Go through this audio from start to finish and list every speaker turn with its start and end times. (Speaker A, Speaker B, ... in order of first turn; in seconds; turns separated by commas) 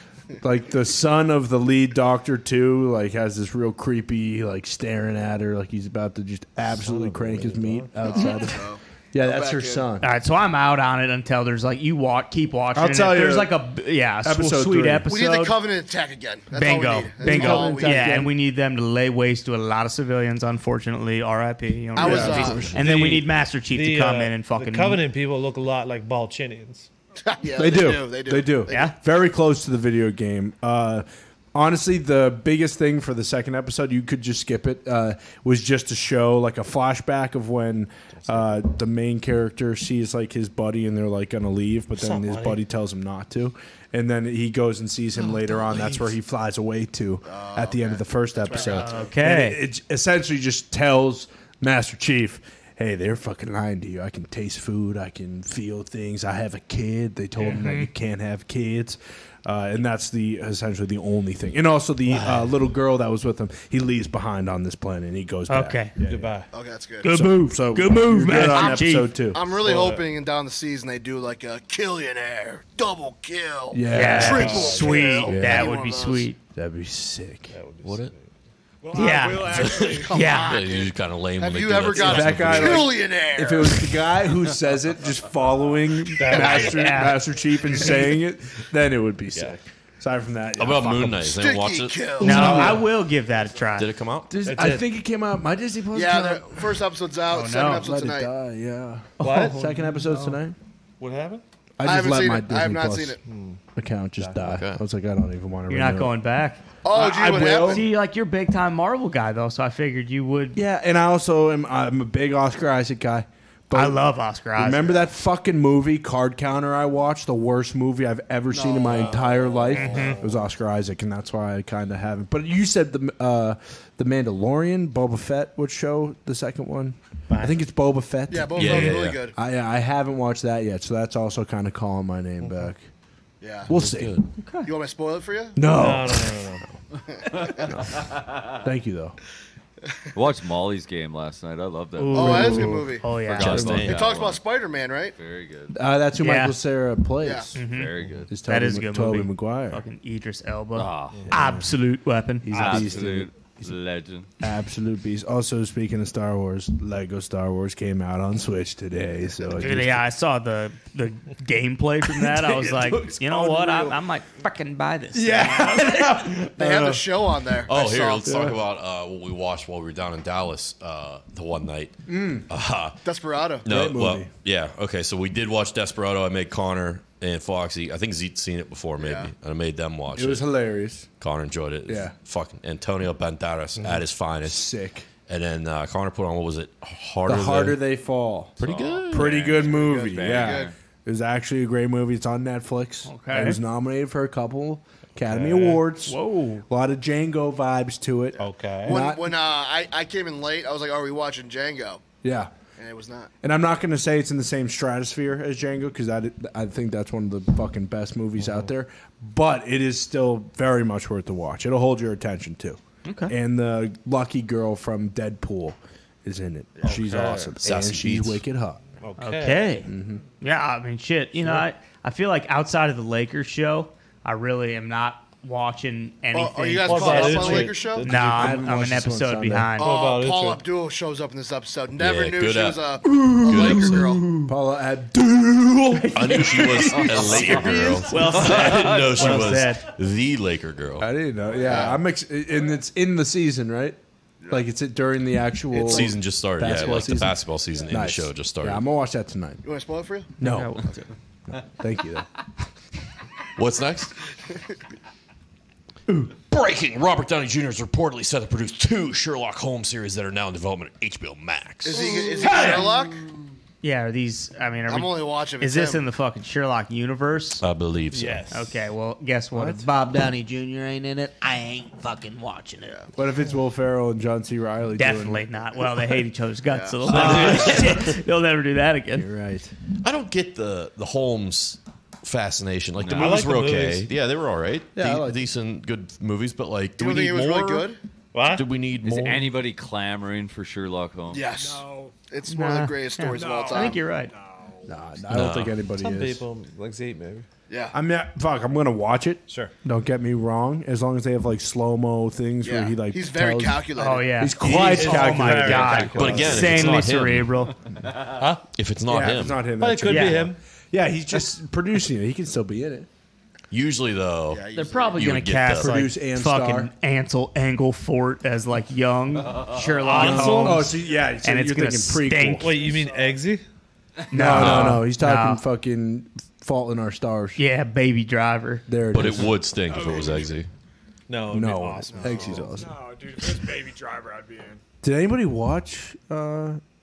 Speaker A: 0.4-10.1, Speaker B: 6.7-7.9, Speaker C: 8.0-9.9, Speaker D: 10.0-15.6, Speaker A: 12.7-13.6, Speaker A: 14.2-15.1, Speaker C: 15.1-18.1, Speaker D: 16.5-25.0, Speaker A: 17.2-18.3, Speaker C: 21.9-22.7, Speaker A: 21.9-22.8, Speaker E: 22.4-22.8, Speaker B: 22.7-26.9, Speaker C: 27.2-28.9, Speaker A: 27.6-66.3, Speaker D: 28.7-28.9, Speaker B: 38.2-38.5, Speaker B: 42.0-42.6, Speaker C: 47.2-49.1, Speaker D: 48.6-49.6, Speaker D: 57.4-57.9, Speaker D: 65.5-65.9, Speaker B: 66.0-66.5, Speaker C: 66.5-67.1, Speaker D: 67.0-69.1, Speaker A: 67.0-69.4, Speaker C: 68.3-76.3, Speaker B: 69.5-70.0, Speaker A: 73.7-74.7, Speaker D: 73.9-76.4, Speaker B: 74.2-75.0, Speaker F: 74.8-75.3, Speaker A: 75.2-75.7, Speaker A: 76.5-77.5, Speaker B: 77.5-78.3, Speaker E: 77.8-78.1, Speaker F: 78.8-80.2, Speaker D: 78.9-80.6, Speaker E: 79.4-82.9, Speaker C: 79.9-84.0, Speaker A: 81.9-91.4, Speaker B: 86.2-86.9, Speaker C: 86.3-86.7, Speaker D: 86.4-87.2, Speaker E: 90.6-92.8, Speaker C: 91.3-92.7, Speaker A: 92.2-92.8, Speaker D: 92.2-93.9, Speaker E: 93.8-94.3, Speaker A: 94.3-96.8, Speaker B: 94.4-94.9, Speaker C: 95.9-98.3, Speaker D: 97.3-97.9, Speaker A: 97.7-100.5, Speaker D: 99.2-100.4, Speaker B: 99.2-99.7, Speaker B: 101.0-101.4, Speaker A: 101.8-103.2, Speaker C: 101.8-103.2, Speaker B: 103.2-103.6, Speaker A: 103.7-106.1, Speaker E: 104.4-104.8, Speaker D: 105.7-110.6, Speaker C: 106.8-107.9, Speaker A: 106.9-107.9, Speaker A: 110.5-132.9, Speaker D: 113.7-115.0, Speaker C: 118.5-120.4, Speaker D: 119.7-120.2, Speaker C: 128.3-129.3, Speaker E: 128.5-129.2, Speaker C: 133.4-133.7, Speaker A: 133.7-134.2, Speaker E: 133.7-134.3, Speaker D: 134.4-134.7, Speaker C: 134.6-135.7, Speaker A: 135.5-136.4, Speaker B: 135.7-136.7, Speaker C: 137.1-137.7, Speaker A: 137.6-139.2, Speaker G: 140.1-144.4, Speaker D: 142.0-143.8, Speaker C: 142.1-143.2, Speaker A: 142.1-142.9, Speaker E: 143.4-144.3, Speaker A: 143.4-143.9, Speaker C: 143.8-145.2, Speaker G: 145.2-145.7, Speaker A: 145.7-147.6, Speaker D: 146.2-146.6, Speaker C: 147.2-147.5, Speaker D: 147.5-147.9, Speaker G: 147.6-148.3, Speaker A: 148.3-149.8, Speaker D: 148.4-152.9, Speaker G: 150.7-151.3, Speaker A: 151.3-151.7, Speaker A: 152.4-153.7, Speaker G: 152.5-154.3, Speaker A: 154.4-160.0, Speaker D: 159.6-166.4, Speaker A: 162.1-163.9, Speaker A: 165.1-167.0, Speaker C: 166.6-168.5, Speaker E: 167.7-173.0, Speaker A: 168.2-168.6, Speaker A: 172.1-172.5, Speaker C: 173.0-173.6, Speaker E: 173.6-180.5, Speaker A: 173.7-174.3, Speaker C: 179.0-179.3, Speaker A: 180.1-181.1, Speaker E: 181.2-184.7, Speaker A: 181.9-182.1, Speaker A: 183.8-185.1, Speaker E: 185.3-187.8, Speaker A: 187.2-188.6, Speaker E: 188.6-189.4, Speaker G: 188.6-190.7, Speaker A: 189.1-199.3, Speaker C: 189.3-190.7, Speaker D: 193.1-193.6, Speaker B: 195.2-195.8, Speaker D: 196.0-196.6, Speaker B: 198.4-199.0, Speaker C: 198.8-202.0, Speaker A: 202.2-202.5, Speaker C: 202.8-203.3, Speaker A: 203.4-218.8, Speaker B: 208.4-208.7, Speaker D: 213.0-213.3, Speaker B: 216.8-217.6, Speaker E: 217.6-218.4, Speaker B: 219.0-219.8, Speaker D: 219.2-219.9, Speaker A: 219.9-220.2, Speaker D: 220.4-229.9, Speaker B: 221.4-221.7, Speaker C: 226.3-228.1, Speaker B: 226.8-228.6, Speaker A: 228.1-229.7, Speaker C: 229.8-234.3, Speaker B: 229.8-230.6, Speaker E: 232.0-234.1, Speaker A: 233.1-236.8, Speaker D: 233.7-234.5, Speaker D: 235.9-237.4, Speaker E: 236.1-241.1, Speaker C: 237.1-238.3, Speaker G: 237.1-237.8, Speaker D: 238.0-239.8, Speaker G: 238.3-239.5, Speaker A: 241.0-244.0, Speaker C: 241.5-242.0, Speaker A: 244.5-249.6, Speaker E: 245.7-248.8, Speaker C: 249.6-250.3, Speaker A: 250.4-250.8, Speaker D: 250.4-250.9, Speaker A: 251.5-252.3, Speaker E: 253.6-254.2, Speaker E: 256.3-262.1, Speaker C: 261.9-263.3, Speaker D: 262.4-262.9, Speaker A: 262.4-262.9, Speaker D: 263.8-267.6, Speaker C: 264.9-266.0, Speaker E: 267.6-268.5, Speaker B: 268.1-268.7, Speaker D: 268.5-272.9, Speaker A: 269.5-269.9, Speaker A: 273.1-275.5, Speaker D: 275.0-279.3, Speaker C: 276.7-277.5, Speaker A: 277.1-277.9, Speaker B: 277.2-277.5, Speaker A: 279.1-279.7, Speaker E: 280.0-287.9, Speaker G: 283.0-283.5, Speaker B: 283.1-284.1, Speaker A: 284.9-285.4, Speaker C: 287.0-288.0, Speaker B: 288.3-288.7, Speaker E: 288.5-289.5, Speaker G: 289.1-291.4, Speaker C: 291.3-294.0, Speaker F: 291.5-292.1, Speaker D: 292.5-294.3, Speaker F: 293.3-294.9, Speaker A: 294.9-296.4, Speaker E: 295.3-295.8, Speaker B: 295.9-297.5, Speaker C: 297.7-297.9, Speaker A: 297.9-307.0, Speaker B: 299.5-299.7, Speaker C: 302.6-304.4, Speaker D: 304.0-307.8, Speaker B: 304.6-306.7, Speaker E: 306.1-307.5, Speaker B: 308.3-308.6, Speaker E: 308.7-309.6, Speaker A: 309.1-313.1, Speaker B: 309.8-310.6, Speaker D: 310.1-310.4, Speaker E: 313.7-316.0, Speaker C: 314.5-315.2, Speaker D: 314.7-322.6, Speaker A: 315.8-316.9, Speaker G: 319.4-320.0, Speaker B: 320.0-321.0, Speaker A: 320.2-322.8, Speaker B: 322.6-323.6, Speaker F: 322.8-323.4, Speaker D: 324.3-325.6, Speaker A: 324.3-327.6, Speaker E: 324.5-325.1, Speaker D: 327.6-328.9, Speaker A: 328.9-329.6, Speaker E: 329.1-330.7, Speaker F: 329.9-330.5, Speaker B: 331.3-332.7, Speaker A: 331.5-332.9, Speaker C: 332.1-332.6, Speaker F: 332.6-334.8, Speaker A: 335.0-336.8